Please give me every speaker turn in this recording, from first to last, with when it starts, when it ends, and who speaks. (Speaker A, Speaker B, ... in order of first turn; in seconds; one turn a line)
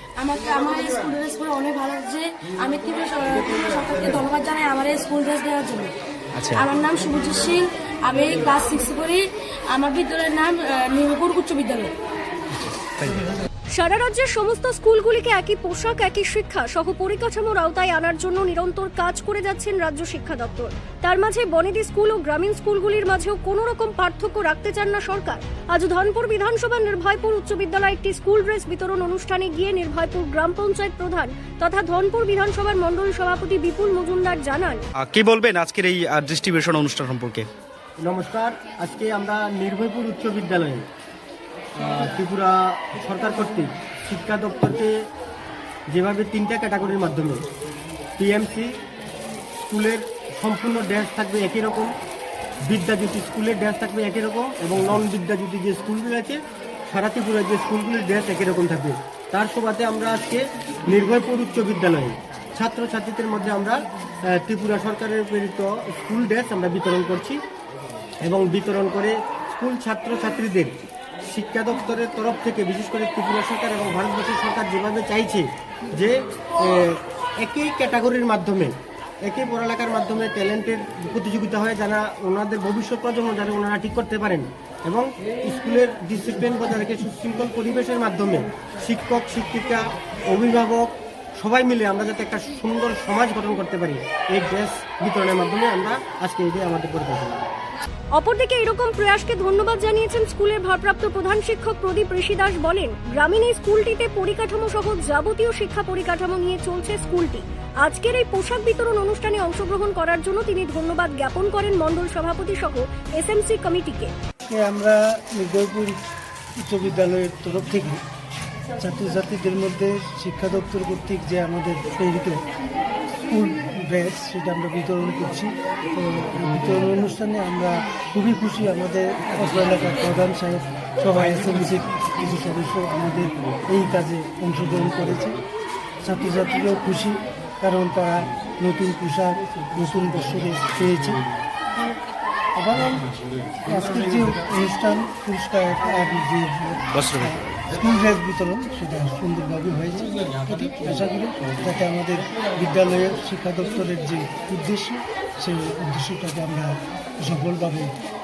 Speaker A: 0.2-5.9
Speaker B: 6.3-6.6
Speaker A: 6.5-11.9
Speaker B: 12.5-13.2
Speaker C: 13.7-34.8
Speaker B: 35.0-37.5
Speaker D: 38.0-40.9
Speaker D: 41.8-44.9
Speaker D: 45.9-47.4
Speaker D: 48.2-48.7
Speaker D: 49.6-51.9
Speaker D: 52.7-67.4
Speaker D: 68.2-78.7
Speaker D: 79.2-97.5
Speaker C: 98.2-114.1
Speaker E: 114.5-116.0
Speaker E: 116.6-118.0
Speaker E: 118.8-122.4
Speaker E: 123.3-135.4
Speaker E: 136.0-141.2
Speaker E: 142.6-143.1
Speaker E: 143.7-157.9
Speaker B: 146.9-147.3